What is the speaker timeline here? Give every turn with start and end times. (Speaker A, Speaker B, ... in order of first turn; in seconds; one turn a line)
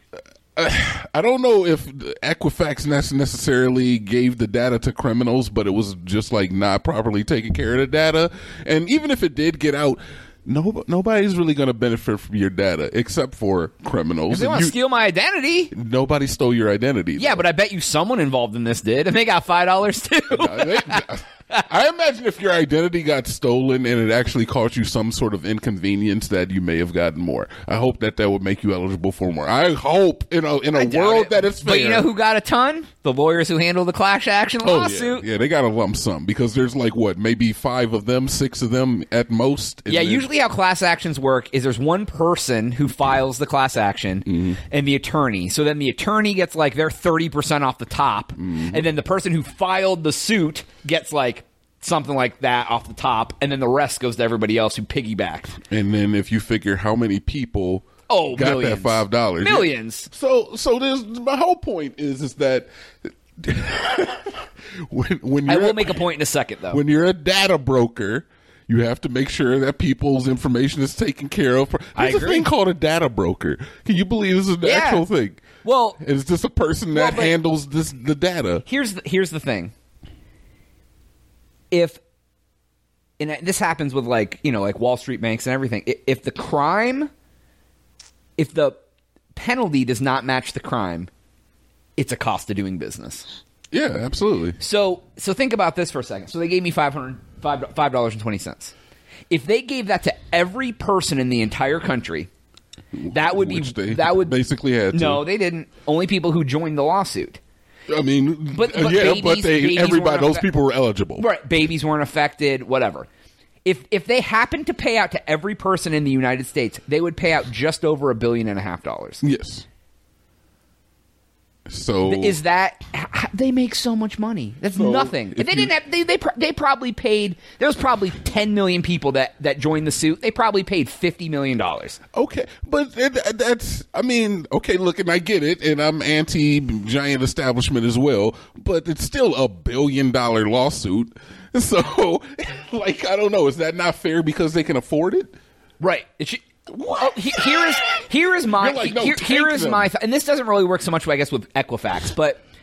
Speaker A: 0.6-14.8
Speaker B: 14.3-15.7
Speaker A: 15.7-17.4
Speaker B: 17.2-21.6
Speaker A: 20.3-32.1
Speaker B: 30.7-35.3
Speaker A: 34.6-40.3
Speaker B: 39.9-55.6
Speaker A: 44.3-44.6
Speaker A: 48.4-48.9
Speaker A: 55.7-66.0
Speaker B: 58.1-60.1
Speaker B: 65.5-66.8
Speaker A: 66.7-75.4
Speaker B: 72.0-72.5
Speaker B: 74.6-75.1
Speaker B: 75.6-76.0
Speaker A: 76.0-78.7
Speaker B: 76.9-77.3
Speaker B: 78.7-79.7
Speaker B: 81.7-82.0
Speaker B: 83.2-87.1
Speaker B: 88.4-88.8
Speaker B: 89.3-91.1
Speaker B: 92.0-93.3
Speaker A: 93.7-94.6
Speaker B: 94.6-98.8
Speaker B: 99.3-102.3
Speaker A: 103.0-105.2
Speaker B: 103.1-104.3
Speaker B: 104.9-107.4
Speaker A: 107.9-111.3
Speaker B: 108.5-110.5
Speaker B: 111.2-113.1
Speaker B: 113.7-119.2
Speaker A: 119.2-119.7
Speaker A: 121.7-122.4
Speaker B: 122.1-132.0
Speaker A: 124.8-125.7
Speaker A: 132.1-145.3
Speaker B: 145.8-152.4
Speaker A: 148.6-149.9